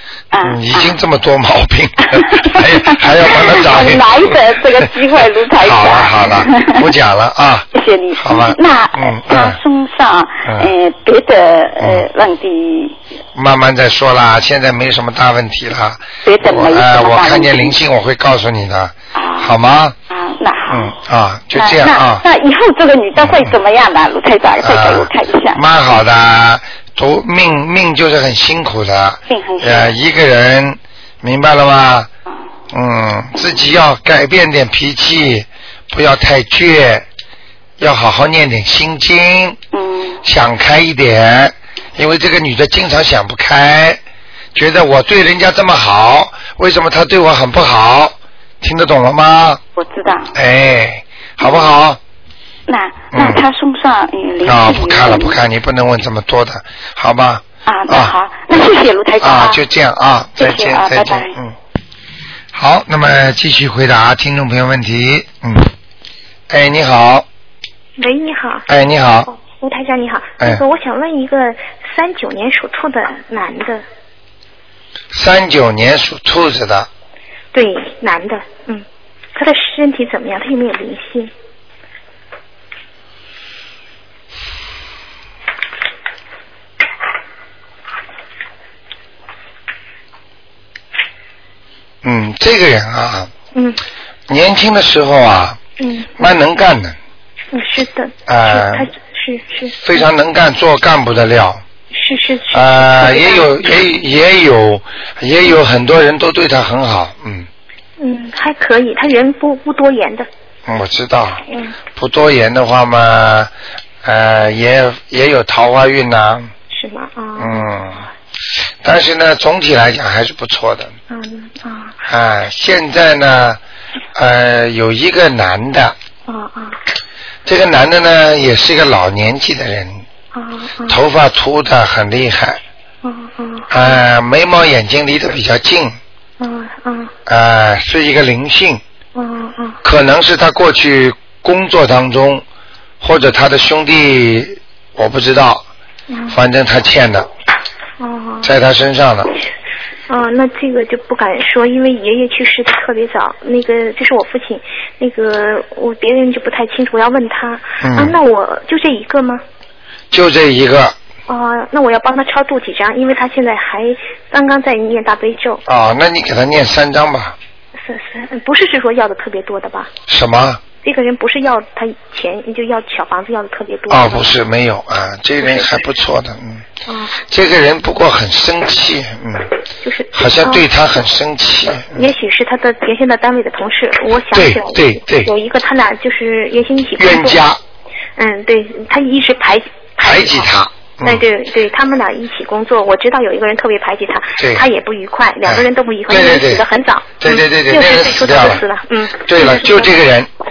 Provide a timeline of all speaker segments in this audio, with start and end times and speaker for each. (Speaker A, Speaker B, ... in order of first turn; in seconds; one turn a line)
Speaker A: 0.3-1.0
Speaker B: 0.4-4.4
Speaker A: 2.1-6.9
Speaker B: 5.6-9.6
Speaker A: 7.7-12.9
Speaker B: 10.4-10.7
Speaker B: 11.8-12.1
Speaker B: 13.3-19.9
Speaker A: 16.2-17.8
Speaker A: 19.1-19.6
Speaker A: 20.1-20.9
Speaker B: 20.7-22.2
Speaker A: 21.5-25.6
Speaker B: 23.1-23.5
Speaker B: 24.6-32.1
Speaker A: 29.3-30.0
Speaker B: 32.7-37.0
Speaker B: 37.8-39.6
Speaker A: 39.7-40.2
Speaker B: 40.2-44.0
Speaker B: 44.5-49.6
Speaker A: 49.8-50.3
Speaker B: 50.3-52.0
Speaker A: 51.4-51.7
Speaker A: 52.7-55.4
Speaker B: 53.1-53.4
Speaker B: 54.4-58.1
Speaker A: 57.6-59.6
Speaker B: 59.2-61.5
Speaker A: 60.4-61.3
Speaker B: 62.5-65.7
Speaker B: 66.5-67.2
Speaker C: 68.0-68.7
Speaker B: 68.7-69.3
Speaker C: 69.3-73.8
Speaker B: 75.1-76.9
Speaker C: 77.5-81.3
Speaker B: 92.0-93.3
Speaker C: 93.5-93.8
Speaker B: 94.3-95.6
Speaker C: 95.8-96.1
Speaker B: 96.2-97.0
Speaker C: 97.5-100.0
Speaker B: 98.3-98.9
Speaker B: 99.8-101.6
Speaker C: 101.9-103.6
Speaker B: 102.5-107.5
Speaker C: 108.0-110.3
Speaker B: 110.7-111.4
Speaker C: 111.5-111.7
Speaker B: 111.9-113.5
Speaker B: 114.0-116.5
Speaker C: 116.7-117.7
Speaker B: 117.4-118.0
Speaker B: 118.8-120.9
Speaker C: 121.1-122.0
Speaker B: 122.1-123.6
Speaker B: 124.1-126.0
Speaker C: 126.3-126.8
Speaker B: 127.4-130.0
Speaker C: 130.3-131.0
Speaker B: 130.9-132.6
Speaker C: 133.0-134.0
Speaker B: 133.7-136.0
Speaker C: 136.4-137.1
Speaker B: 137.3-138.8
Speaker C: 139.1-139.8
Speaker B: 139.8-142.4
Speaker B: 143.0-145.6
Speaker C: 146.1-146.4
Speaker B: 146.3-147.3
Speaker C: 148.0-148.5
Speaker B: 148.4-149.3
Speaker C: 150.1-159.4
Speaker B: 157.8-158.2
Speaker B: 160.1-160.9
Speaker C: 161.3-165.6
Speaker B: 165.7-167.3
Speaker C: 167.8-169.9
Speaker B: 170.1-170.6
Speaker C: 170.8-174.3
Speaker B: 173.9-176.6
Speaker C: 175.4-175.8
Speaker C: 176.9-177.2
Speaker B: 177.2-179.5
Speaker C: 179.8-180.6
Speaker B: 180.1-182.1
Speaker C: 181.9-187.4
Speaker B: 184.3-185.3
Speaker B: 187.0-187.6
Speaker C: 188.2-190.5
Speaker B: 190.0-191.2
Speaker C: 191.0-199.9
Speaker B: 194.4-194.7
Speaker B: 195.4-196.7
Speaker B: 197.2-198.6
Speaker B: 199.2-200.3